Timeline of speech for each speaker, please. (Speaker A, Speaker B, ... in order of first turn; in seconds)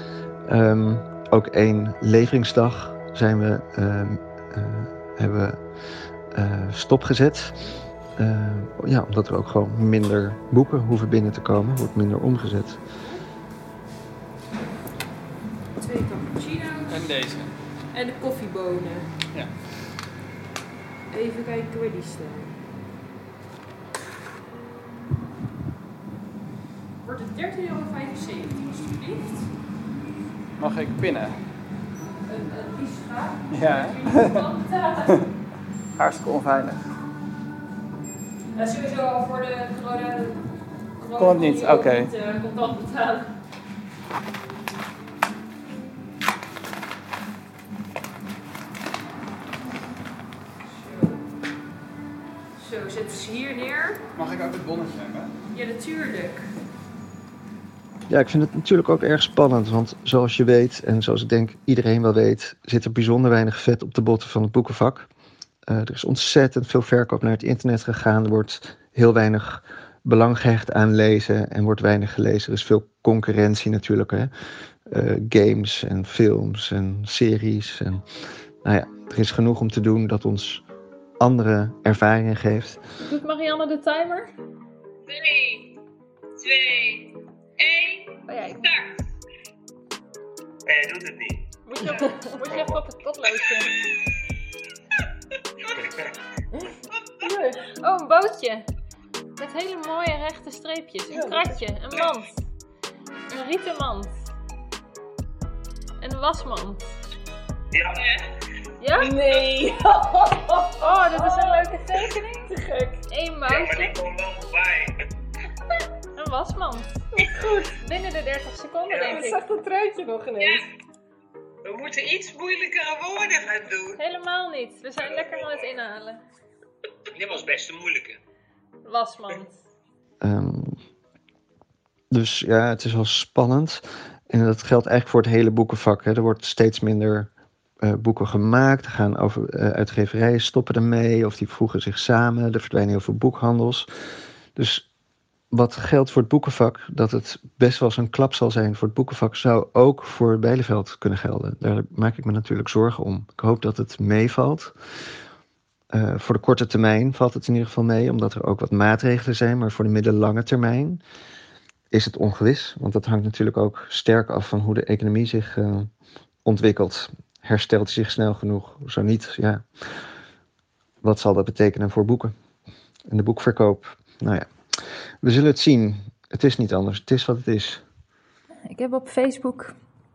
Speaker A: 0.5-5.6, 6.3-7.6, 8.2-12.8, 58.1-65.1, 65.7-74.3, 74.9-78.0, 78.6-80.6, 81.2-82.8, 130.2-130.8, 132.1-137.3, 137.8-143.9, 144.5-144.9, 145.5-154.7, 155.9-161.0, 161.9-165.9, 166.4-169.9, 171.0-172.3, 173.1-174.5, 175.2-177.8
Speaker B: 15.8-17.2, 17.9-19.1, 21.1-22.5, 27.0-29.5, 32.2-35.1, 38.5-40.5, 41.0-43.3, 50.7-51.2, 52.6-54.0, 55.5-56.5, 97.3-97.6, 109.1-113.0, 119.1-120.6
Speaker C: 16.9-17.6, 30.6-31.4, 33.5-34.4, 36.0-36.9, 41.2-42.1, 54.1-55.3
Speaker D: 83.0-84.3, 88.3-88.7, 91.7-93.7, 97.8-98.6, 99.4-102.4, 103.3-104.2, 106.0-106.8, 108.8-109.2, 110.8-112.4, 113.0-113.9, 116.2-117.0, 117.8-119.4, 124.0-126.2, 128.8-129.5, 178.7-179.7
Speaker E: 85.1-85.8, 86.4-89.0, 90.7-91.4, 107.7-108.2, 113.5-114.9, 118.9-119.3, 120.4-120.6, 121.7-124.0, 125.0-125.7, 127.2-128.2